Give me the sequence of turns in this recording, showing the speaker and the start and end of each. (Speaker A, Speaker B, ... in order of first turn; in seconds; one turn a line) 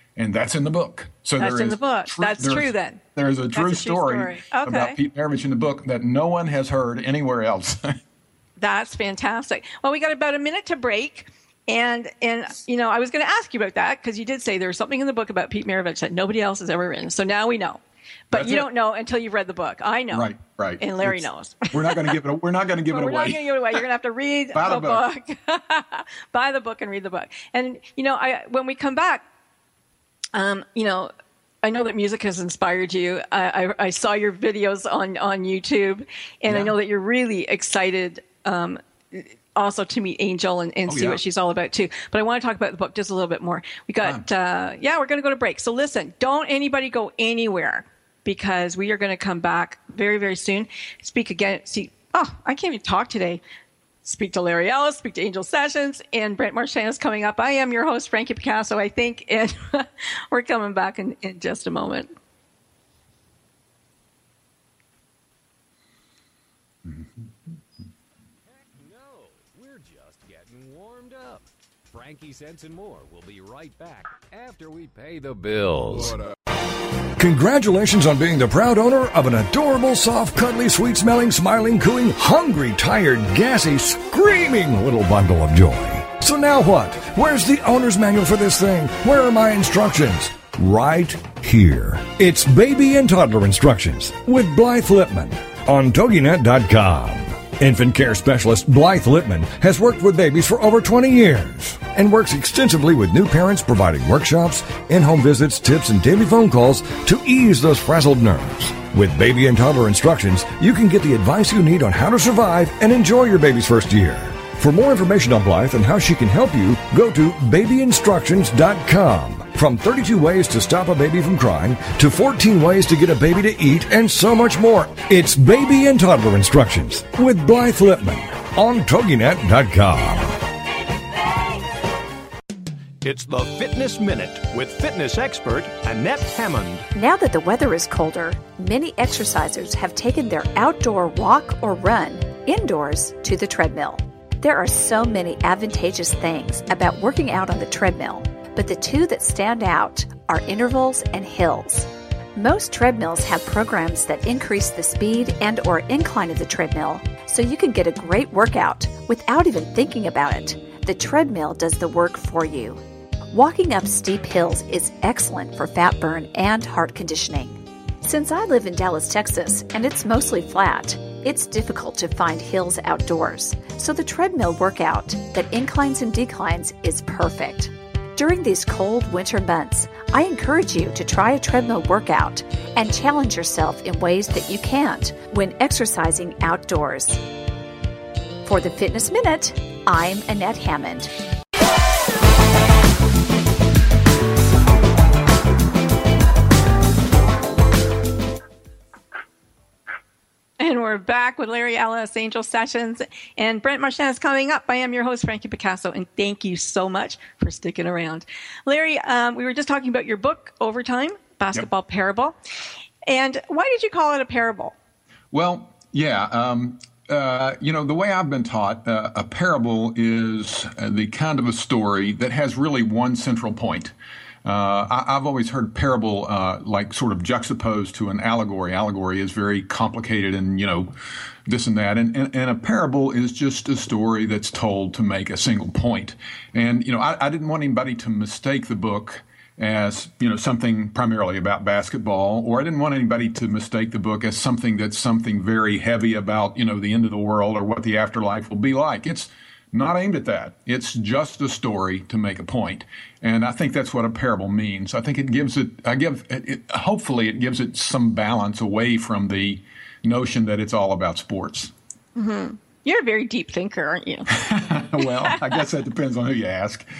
Speaker A: 0.1-8.0
Speaker B: 1.4-3.0
Speaker B: 3.5-5.0
Speaker B: 8.6-22.1
Speaker A: 18.3-18.7
Speaker A: 20.1-23.8
Speaker B: 22.9-29.2
Speaker A: 24.5-25.0
Speaker B: 30.3-31.1
Speaker B: 31.6-53.4
Speaker A: 36.5-36.7
Speaker A: 40.9-41.2
Speaker B: 54.0-62.1
Speaker C: 68.6-76.2
Speaker D: 77.2-130.4
Speaker E: 133.0-136.9
Speaker F: 136.9-162.8
Speaker F: 163.3-187.2
Speaker F: 188.4-191.1
Speaker B: 200.6-212.3
Speaker B: 213.1-214.7
Speaker A: 215.3-223.9
Speaker A: 224.4-230.9
Speaker A: 231.5-261.7
Speaker B: 262.1-264.3
Speaker A: 264.3-266.9
Speaker B: 265.0-265.6